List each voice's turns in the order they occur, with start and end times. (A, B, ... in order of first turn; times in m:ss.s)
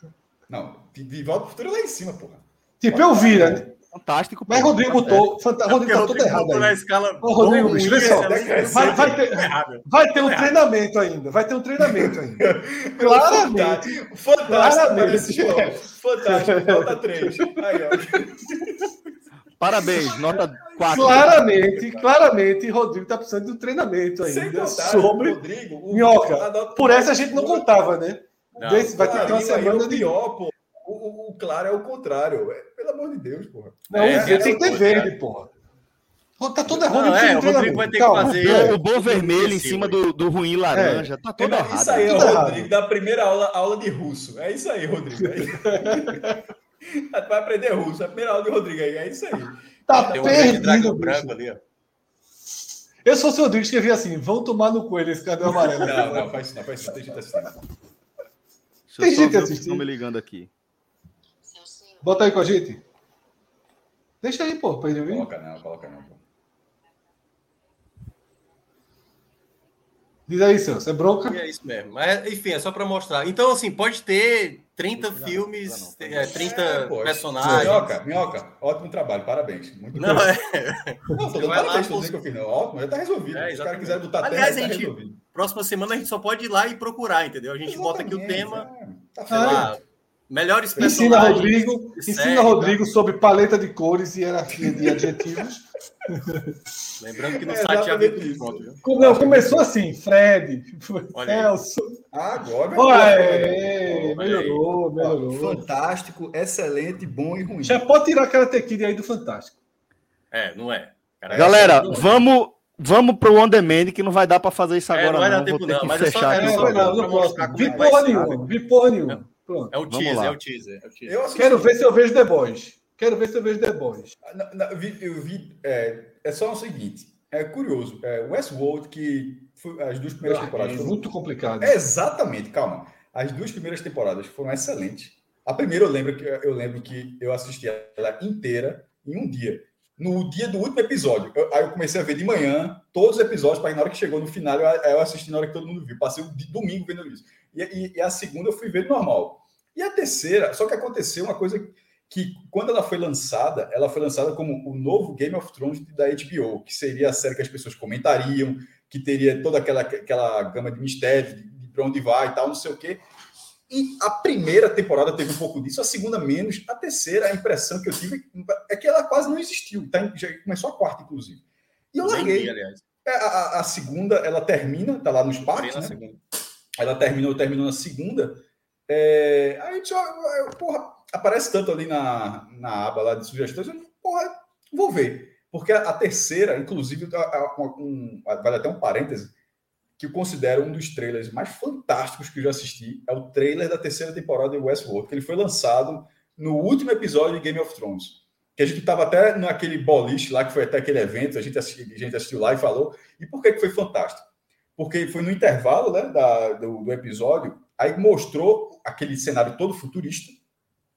0:00.5-0:03.6 A
0:02.8-0:03.7 B
0:03.9-0:05.3 C
0:04.5-0:18.0 B
0:05.6-0:10.7 D
0:07.9-0:09.2 A
0:11.8-0:18.7 A
0:19.6-0:21.4 C
0:20.8-0:21.3 A
0:20.9-0:30.1 B
0:21.8-0:22.1 D
0:24.2-0:27.8 A
0:28.6-0:29.4 D
0:28.9-0:35.1 A
0:33.9-0:35.5 B
0:33.9-0:35.1 D
0:36.4-0:38.8 B
0:36.7-0:40.0 D
0:38.4-0:42.4 C
0:40.7-0:41.1 B
0:41.4-0:50.7 A
0:42.1-0:42.7 B
0:45.6-0:46.4 B
0:49.9-0:51.4 B
0:49.9-0:51.6 D
0:53.0-0:56.3 B
0:55.5-0:57.6 A
0:58.9-1:00.5 C
0:59.0-0:59.8 B
1:02.0-1:02.8 B
1:04.2-1:05.3 B
1:05.1-1:06.2 A
1:10.3-1:11.4 B
1:11.2-1:18.0 D
1:14.9-1:16.4 C
1:16.3-1:20.3 A
1:19.9-1:22.2 D
1:21.1-1:25.2 A
1:23.3-1:28.7 D
1:27.6-1:29.8 A
1:29.3-1:32.8 D
1:29.3-1:29.7 B
1:30.8-1:36.5 B
1:34.7-1:35.0 A
1:37.0-1:38.8 D
1:37.4-1:39.7 A
1:38.8-1:42.0 B
1:41.1-1:41.6 D
1:42.1-1:44.0 A
1:42.7-1:45.7 B
1:43.9-1:44.6 D
1:45.0-1:47.8 A
1:47.6-1:49.6 B
1:50.3-1:52.1 D
1:51.3-1:51.8 A
1:51.3-1:57.1 C
1:54.9-1:58.5 D
1:56.3-1:59.7 B
1:57.6-1:57.9 C
1:59.7-2:01.2 D
1:59.9-2:00.4 C
2:01.1-2:01.8 A
2:01.3-2:04.1 B
2:04.2-2:11.0 A
2:10.2-2:11.8 B
2:11.6-2:43.0 A
2:43.7-2:51.4 A
2:51.9-2:56.2 A
2:52.0-2:52.8 D
2:55.5-2:56.0 D
2:56.8-3:09.3 A
3:10.0-3:24.2 A
3:24.8-3:30.4 A